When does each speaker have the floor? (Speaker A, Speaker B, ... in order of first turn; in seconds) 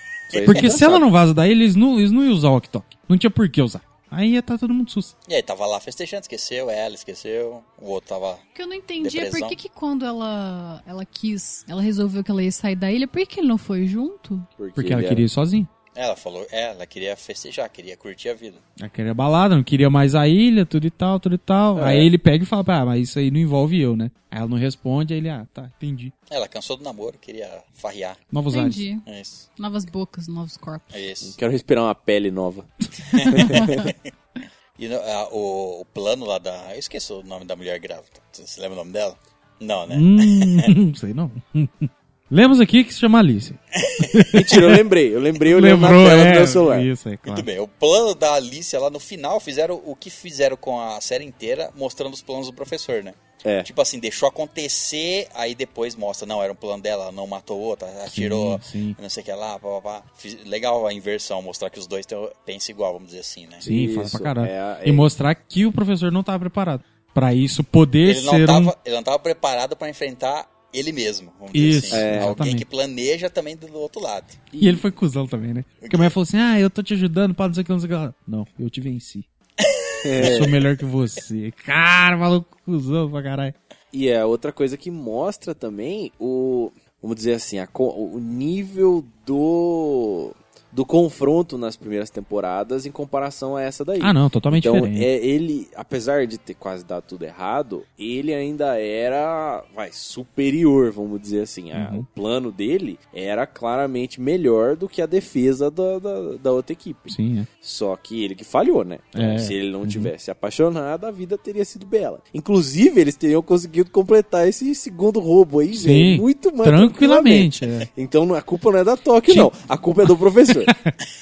Speaker A: 0.3-1.0, 14.6-15.2, 21.7-22.1, 31.2-32.7, 33.2-33.9, 44.3-46.9, 53.4-53.7, 63.6-65.1, 71.9-72.3, 74.5-74.8, 80.0-80.6, 83.9-120.7
Speaker B: 0.3-0.7, 5.3-8.4, 9.0-9.6, 15.9-18.6, 26.3-28.2, 29.0-29.4, 30.9-31.3, 33.1-33.9, 34.8-40.7, 43.8-44.3, 47.2-63.6, 68.0-74.4, 75.8-76.1, 79.6-80.6
Speaker C: 0.4-5.1, 14.8-15.7, 18.8-26.1, 28.3-28.8, 39.9-44.8, 45.4-47.5, 58.1-59.0, 63.6-68.7, 71.5-72.7, 74.6-79.2, 80.2-83.5, 94.0-95.1, 101.7-102.0, 107.1-107.5, 109.1-110.1, 115.7-117.9, 119.3-119.5, 120.7-120.9
Speaker D: 8.5-14.5, 28.5-29.0, 29.6-30.9